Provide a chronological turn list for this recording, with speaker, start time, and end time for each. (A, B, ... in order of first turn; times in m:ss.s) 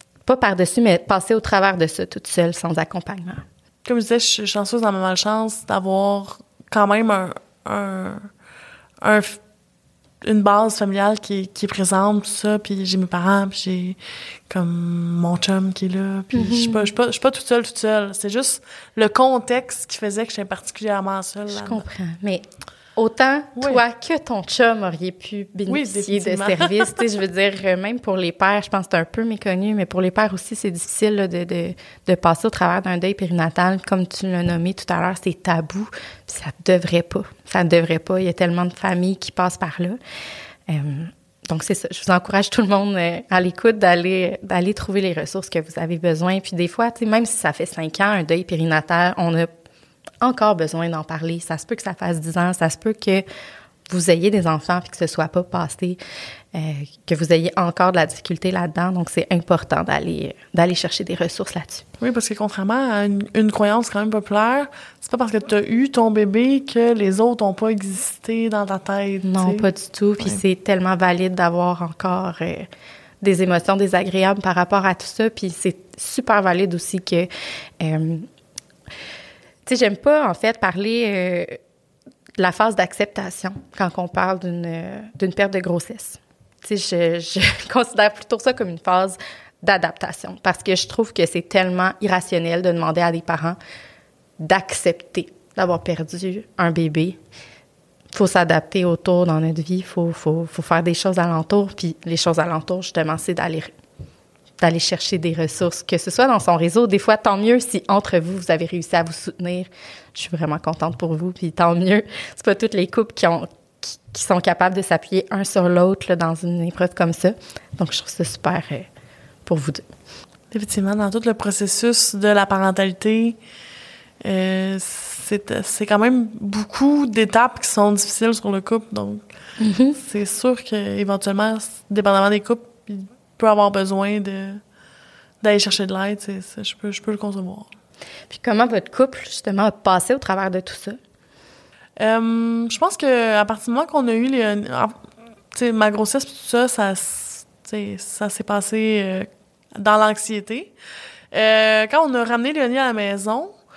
0:00.2-0:03.4 A
0:03.8-0:08.3 B
0:09.0-0:09.4 B
0:10.2-0:14.0 B
0:14.5-0:21.8 B
0:16.3-0:16.9 A
0:21.5-0:22.4 A
0:23.0-0:40.0 A
0:23.6-0:23.8 B
0:25.7-0:27.0 B
0:40.7-0:49.5 A
0:50.2-0:53.2 A
0:53.9-0:56.0 A
0:56.5-1:01.8 A
1:02.0-1:09.7 B
1:09.2-1:12.7 A
1:13.2-1:17.3 A
1:17.8-1:18.3 A
1:19.6-1:21.6 A
1:22.4-1:33.6 A
1:34.4-1:37.2 A
1:38.1-1:43.7 A
1:44.6-1:58.9 A
1:59.4-1:59.8 A
2:00.5-2:03.4 B
2:04.2-2:09.2 B
2:09.6-2:10.0 A
2:10.0-2:14.6 B
2:15.4-2:17.7 B
2:18.3-2:21.0 A
2:22.0-2:24.9 B
2:25.5-2:30.7 B
2:31.3-2:33.5 B